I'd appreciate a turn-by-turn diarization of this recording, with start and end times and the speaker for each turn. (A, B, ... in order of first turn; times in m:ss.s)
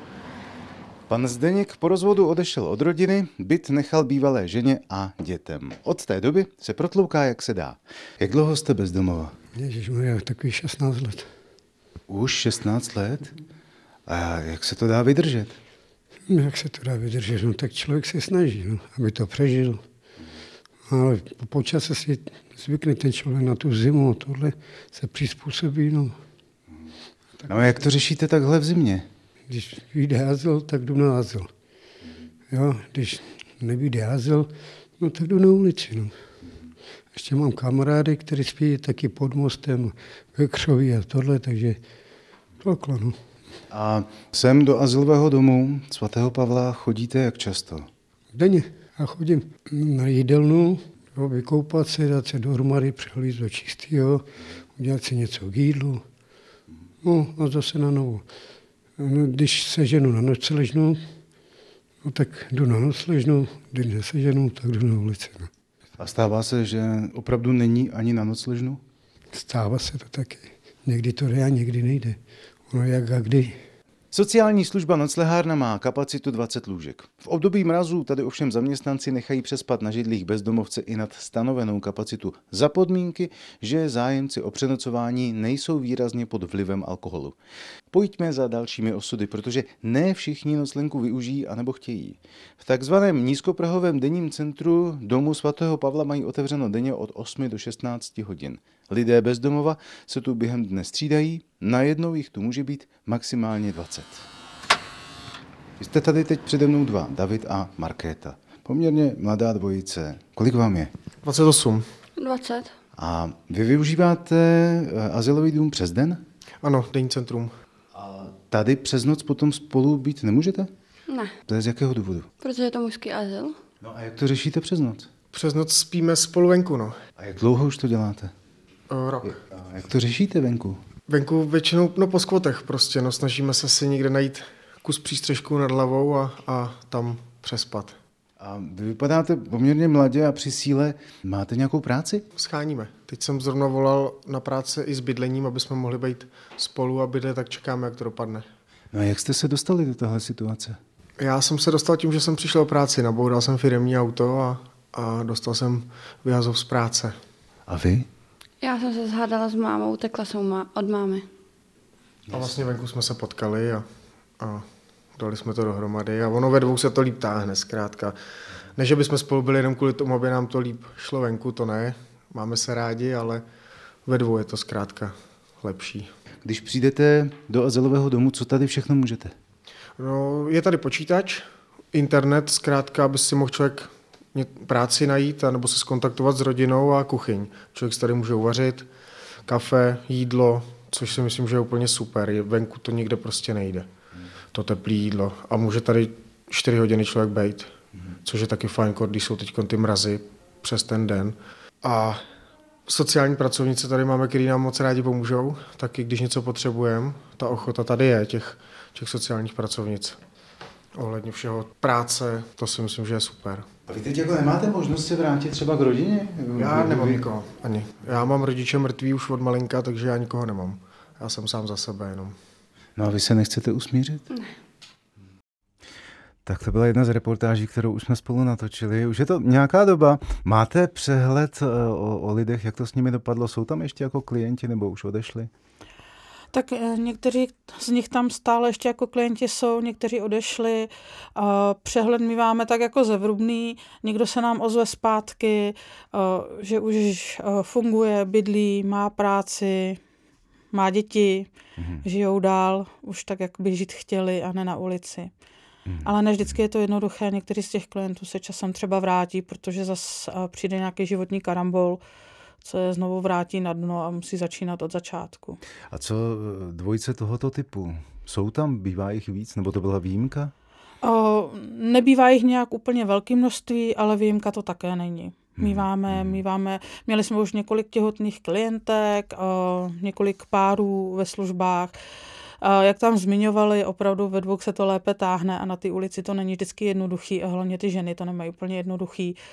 0:01.1-0:09.4 A
0:09.5-0:11.3 B
0:12.1-0:13.3 A
0:14.1-0:15.6 A
0:16.3-0:19.8 B
0:20.9-0:26.2 B
0:27.5-0:29.1 A
0:29.5-0:31.5 B
0:32.5-0:36.2 B
0:37.1-0:41.8 B
0:42.6-0:43.2 B
0:43.7-0:47.9 A
0:48.3-0:56.0 B
0:57.0-0:58.3 B
0:59.0-1:01.0 B
1:02.0-1:05.5 B
1:06.0-1:08.8 A
1:09.3-1:13.6 B
1:14.1-1:27.4 A
1:27.9-1:44.3 A
1:45.8-1:50.9 A
1:51.2-1:51.9 C
1:52.2-1:52.7 D
1:53.0-1:56.2 A
1:56.6-1:57.5 C
1:57.9-2:00.7 A
2:01.1-2:01.4 D
2:01.4-2:02.3 A
2:02.4-2:03.6 D
2:03.8-2:05.1 A
2:05.3-2:07.0 C
2:07.2-2:08.3 A
2:08.9-2:09.4 C
2:09.2-2:10.8 A
2:11.1-2:18.0 C
2:18.4-2:22.2 A
2:22.3-2:28.4 C
2:28.9-2:30.8 A
2:31.2-2:37.2 C
2:37.7-2:38.1 A
2:38.6-2:41.3 D
2:42.3-2:43.8 C
2:44.4-2:48.2 C
2:48.7-2:53.4 C
2:54.0-2:56.1 C
2:56.4-2:59.3 A
3:00.0-3:08.9 C
3:09.4-3:13.9 C
3:14.5-3:17.7 C
3:18.2-3:22.2 C
3:22.8-3:30.2 C
3:31.0-3:33.6 C
3:33.9-3:37.2 A
3:36.6-3:42.3 C
3:43.0-3:44.2 A
3:46.4-3:55.5 A
3:56.5-4:10.0 E
4:10.7-4:11.5 E
4:11.8-4:12.0 A
4:12.0-4:15.3 E
4:16.0-4:22.0 E
4:22.6-4:25.6 E
4:25.9-4:30.5 A
4:31.0-4:41.9 E
4:35.6-4:36.4 A
4:42.6-4:49.4 E